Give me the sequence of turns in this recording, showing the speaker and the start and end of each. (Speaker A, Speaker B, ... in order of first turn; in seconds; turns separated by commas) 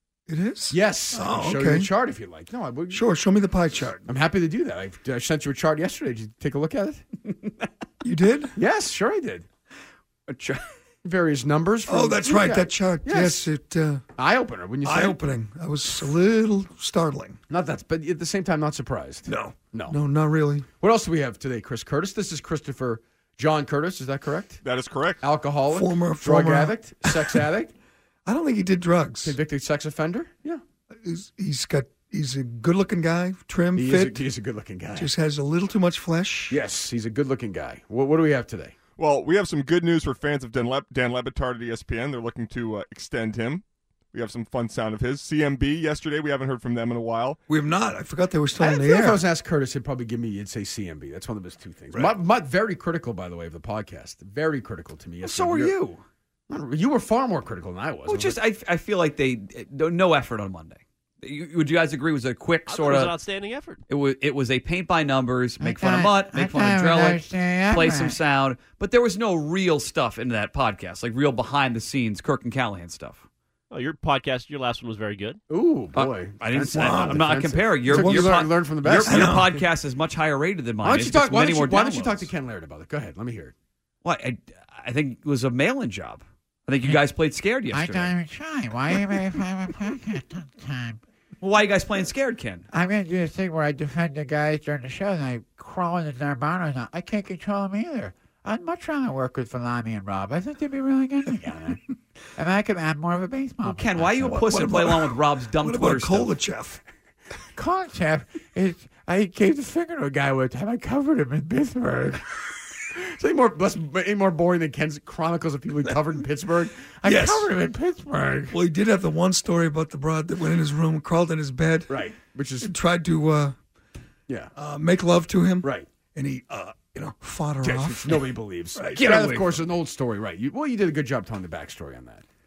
Speaker A: 0.3-1.9, Speaker B: 0.7-3.0, Speaker A: 2.9-4.0, Speaker B: 4.0-7.0, Speaker A: 8.0-8.5, Speaker B: 8.6-9.4, Speaker C: 10.3-10.6, Speaker B: 11.0-13.5, Speaker A: 11.9-14.0, Speaker B: 14.2-15.2, Speaker A: 14.8-17.4, Speaker B: 17.5-20.0, Speaker A: 19.3-20.7, Speaker B: 20.8-24.6, Speaker D: 24.6-25.2, Speaker B: 25.2-27.7, Speaker A: 25.7-27.5, Speaker A: 28.2-29.4, Speaker B: 29.2-30.6, Speaker A: 30.9-34.2, Speaker B: 33.7-35.1, Speaker A: 35.0-36.6, Speaker B: 36.5-38.8, Speaker D: 39.0-47.4, Speaker A: 47.5-49.2, Speaker B: 48.6-55.7, Speaker C: 55.2-56.0, Speaker B: 56.5-58.4, Speaker C: 58.0-63.1, Speaker E: 62.7-63.8, Speaker C: 63.9-73.2, Speaker F: 65.6-68.2, Speaker E: 73.7-75.4, Speaker B: 75.5-79.4, Speaker C: 75.9-82.3, Speaker A: 76.7-77.3, Speaker A: 77.9-79.6, Speaker B: 80.8-83.5, Speaker C: 84.0-88.1, Speaker F: 87.7-91.0, Speaker C: 91.4-92.7, Speaker F: 92.7-101.8, Speaker F: 102.3-104.5, Speaker C: 103.6-106.3, Speaker A: 104.2-106.8, Speaker F: 107.5-112.2, Speaker B: 110.1-110.7, Speaker B: 112.9-118.5, Speaker A: 117.0-117.5, Speaker F: 117.5-118.5, Speaker A: 118.5-122.0, Speaker B: 121.9-122.7, Speaker A: 122.6-123.6, Speaker A: 124.5-129.6, Speaker B: 125.6-125.9, Speaker B: 127.6-132.2